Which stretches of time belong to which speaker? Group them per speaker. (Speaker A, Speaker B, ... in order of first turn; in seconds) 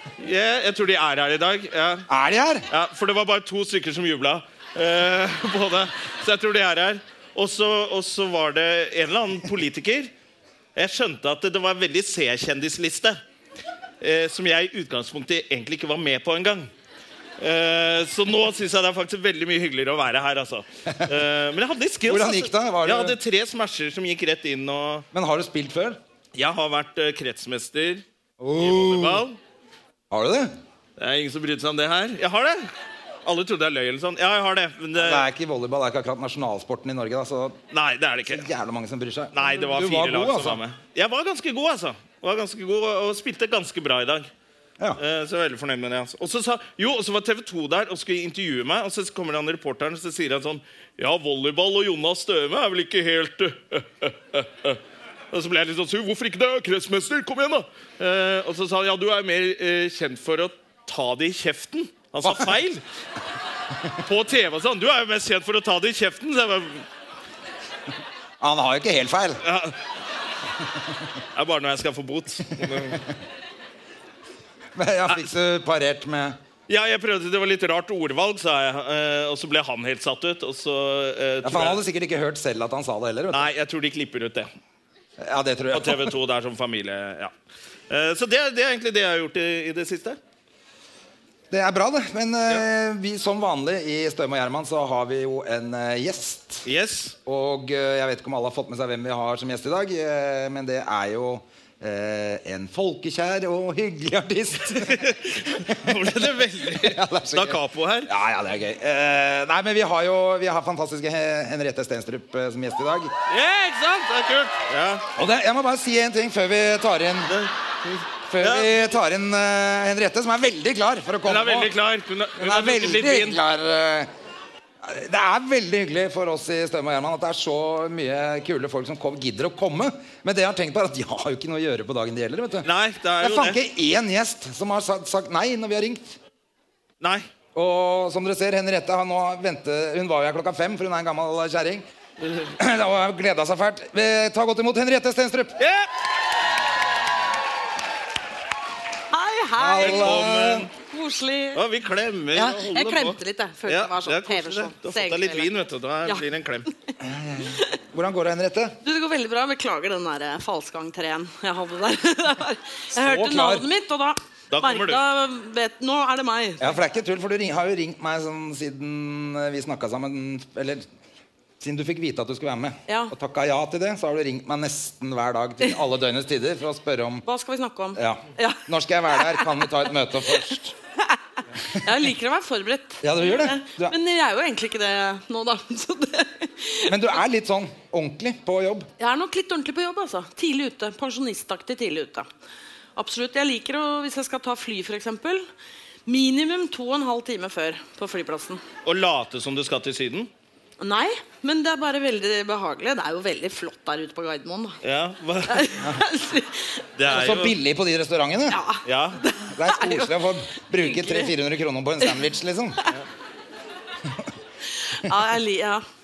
Speaker A: 0.2-2.1, 2.7-10.1, 10.8-13.2, 14.0-16.7, 17.4-25.0, 26.3-28.0, 28.6-29.4, 31.0-32.7, 33.2-35.2, 37.7-38.5, 39.3-44.3, 45.0-54.8, 55.3-62.8, 64.0-66.8, 69.4-69.8, 71.3-73.0, 76.7-81.8, 83.3-84.5, 85.7-87.3, 87.9-90.2, 96.7-97.2, 104.7-108.1, 113.3-115.0, 117.3-118.7, 121.2-123.4, 132.6-133.6, 137.0-137.3, 142.2-142.5, 145.6-145.9, 149.8-150.7, 151.5-156.7, 164.5-165.0, 198.8-200.3, 204.8-205.8, 207.0-207.6, 208.8-209.2
Speaker B: 2.1-2.7, 22.1-23.1, 25.1-26.0, 28.4-29.2, 30.1-30.5, 34.9-37.6, 38.3-40.6, 62.2-62.5, 68.4-69.4, 74.7-76.4, 81.4-83.5, 85.2-86.1, 91.5-96.7, 97.2-113.1, 115.2-117.3, 118.3-121.7, 122.3-124.1, 124.8-132.7, 133.2-136.2, 137.5-141.8, 142.6-145.6, 149.6-150.7, 157.0-158.8, 162.9-163.6, 166.6-170.8, 171.6-177.2, 177.9-180.7, 183.0-183.9, 186.8-188.9, 207.1-208.6, 209.5-212.8
Speaker C: 149.1-150.2, 150.8-151.6, 152.3-155.5, 158.8-166.8, 172.9-173.1, 177.2-180.4, 181.0-187.0, 189.0-192.3, 192.9-195.5, 196.1-198.6, 200.8-204.8, 205.5-206.8, 208.5-211.3, 214.7-215.8